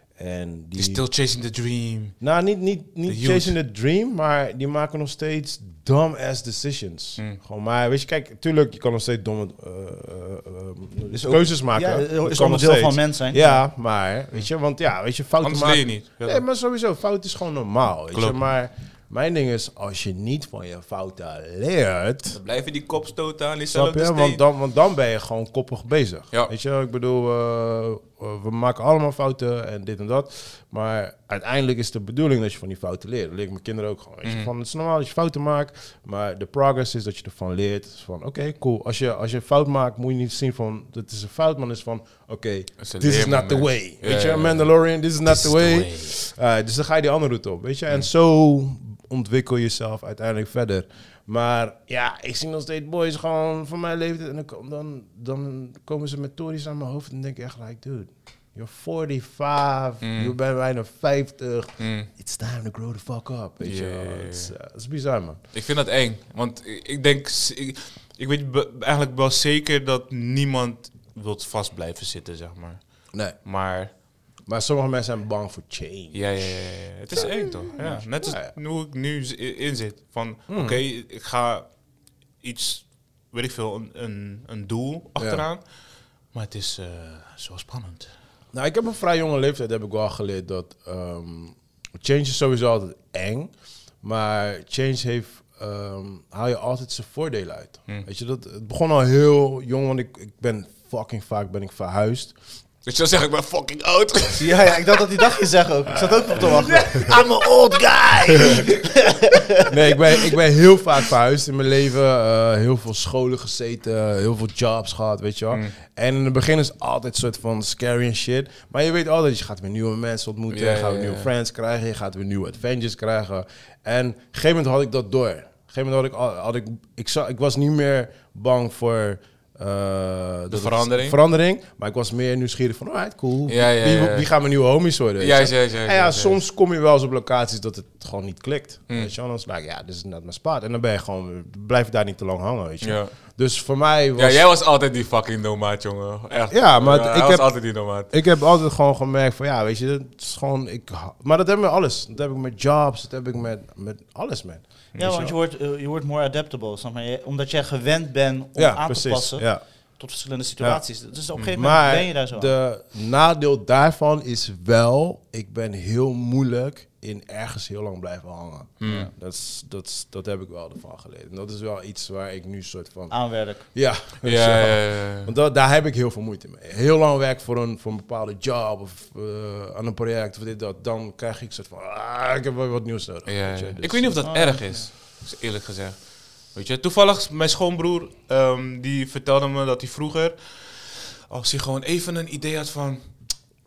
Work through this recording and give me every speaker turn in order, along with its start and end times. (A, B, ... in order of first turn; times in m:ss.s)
0:00.2-0:01.0 A
0:00.8-0:02.3 B
0:02.2-0:22.4 A
0:03.0-0:03.5 B
0:11.1-0:13.6 C
0:15.4-0:16.4 B
0:22.3-0:24.4 B
0:23.7-1:05.4 A
0:34.2-0:34.5 B
0:42.8-0:44.7 B
0:45.2-0:46.1 B
1:00.0-1:00.3 B
1:01.8-1:02.1 B
1:03.6-1:04.5 B
1:05.5-1:13.9 B
1:14.4-1:18.5 A
1:16.1-1:21.7 B
1:17.7-1:18.0 C
1:20.5-1:20.8 A
1:22.4-1:28.1 B
1:25.2-1:25.4 A
1:28.5-1:42.3 A
1:42.8-1:45.0 B
1:44.3-1:49.7 C
1:46.3-1:48.6 B
1:49.6-2:24.4 A
2:00.5-2:01.3 B
2:10.5-2:11.2 B
2:13.5-2:14.3 B
2:15.2-2:16.4 B
2:22.8-2:23.1 B
2:24.2-2:28.1 B
2:26.5-2:34.6 A
2:34.9-2:35.3 B
2:35.0-2:42.5 C
2:38.6-2:39.6 A
2:40.6-3:04.2 A
2:48.8-2:49.1 B
2:48.8-2:49.1 C
2:53.1-2:53.6 C
2:54.2-2:55.3 B
3:03.2-3:13.3 B
3:04.2-3:04.9 C